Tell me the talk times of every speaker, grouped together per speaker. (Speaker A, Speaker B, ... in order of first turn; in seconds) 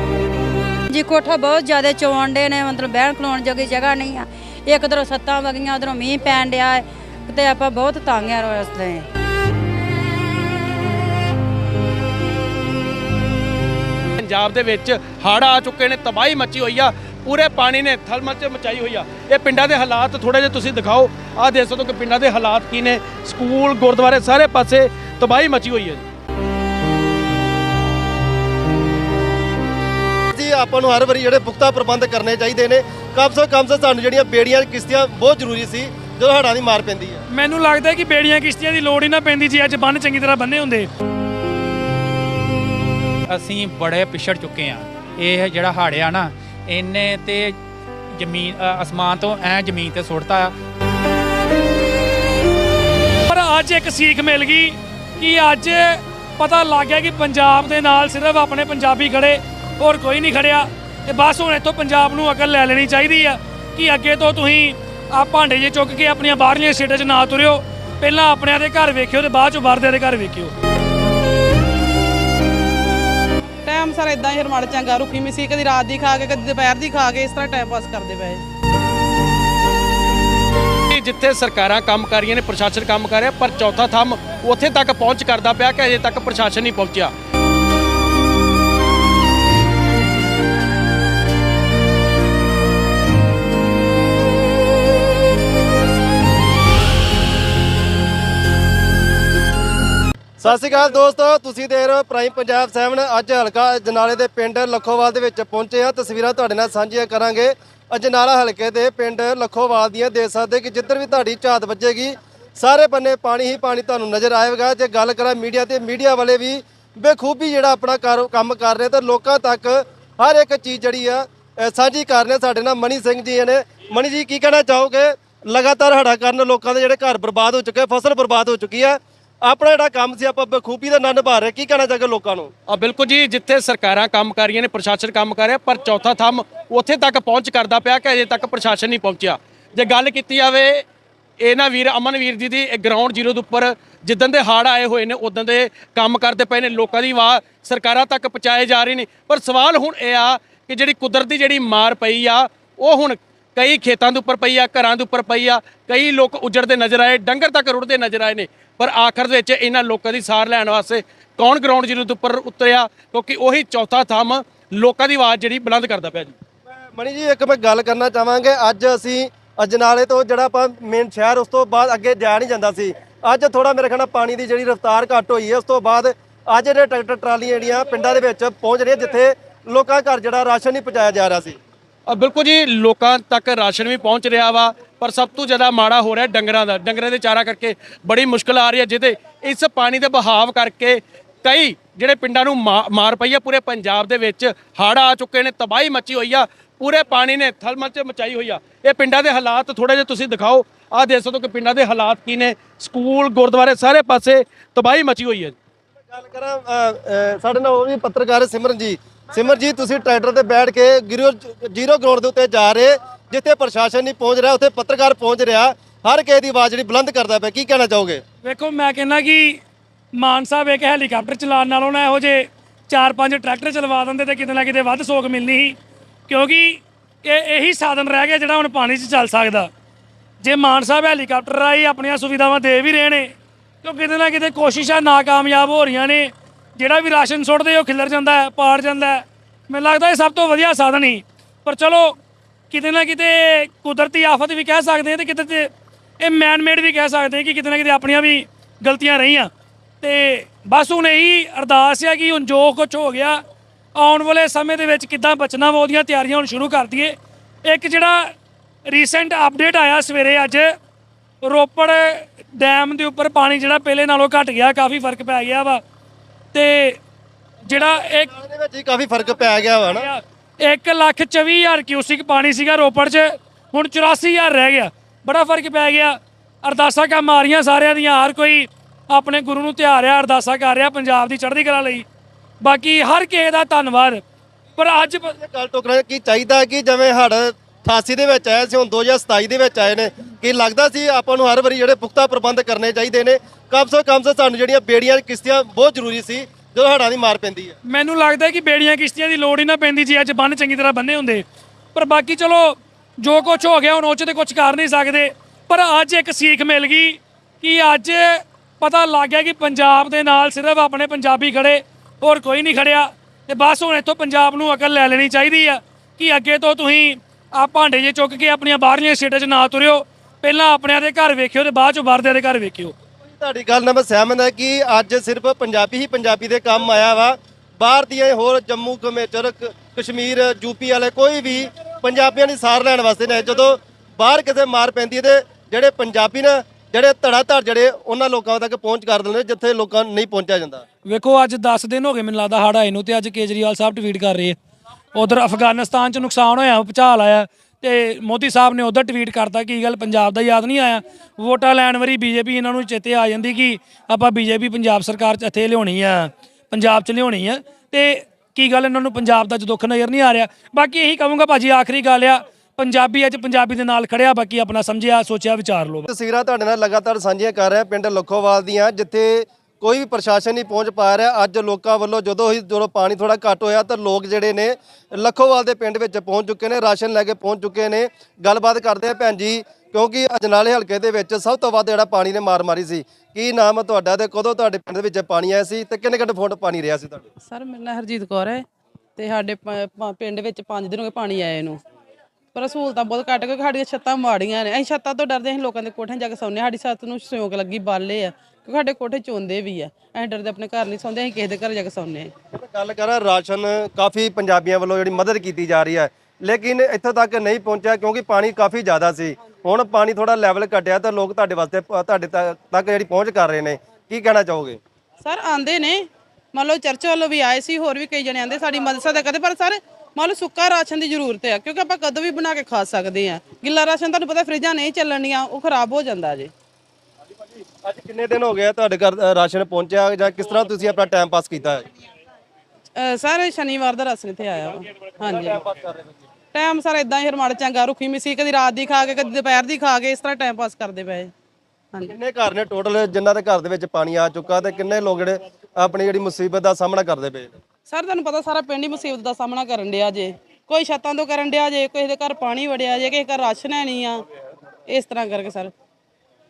Speaker A: 0.9-9.1
Speaker B: 14.2-26.0, 80.9-87.1, 132.7-140.8, 141.4-166.3, 182.1-205.5
Speaker C: 30.3-37.2, 100.4-132.5, 166.9-181.6, 206.1-218.2, 268.2-270.1, 285.4-297.8, 323.2-340.8, 366.1-387.2, 402.5-414.8, 427.8-431.8, 435.6-436.0, 442.1-447.6
Speaker D: 37.3-40.9, 53.3-70.5, 218.4-219.6, 220.2-225.7, 226.3-229.7, 230.4-233.3, 233.8-242.2, 242.7-245.7, 246.2-249.5, 250.0-253.4, 253.9-258.3, 258.9-260.7, 261.4-265.8, 266.5-267.0, 267.6-268.3, 270.0-282.1, 282.6-284.2, 284.8-285.3, 297.9-322.9, 341.1-344.6, 345.1-366.1
Speaker E: 43.4-47.4, 48.2-50.5
Speaker F: 73.6-78.4, 387.4-388.6, 389.2-391.8, 392.5-402.3, 415.2-426.5, 432.9-435.6, 436.5-441.3, 447.9-454.2, 454.9-455.7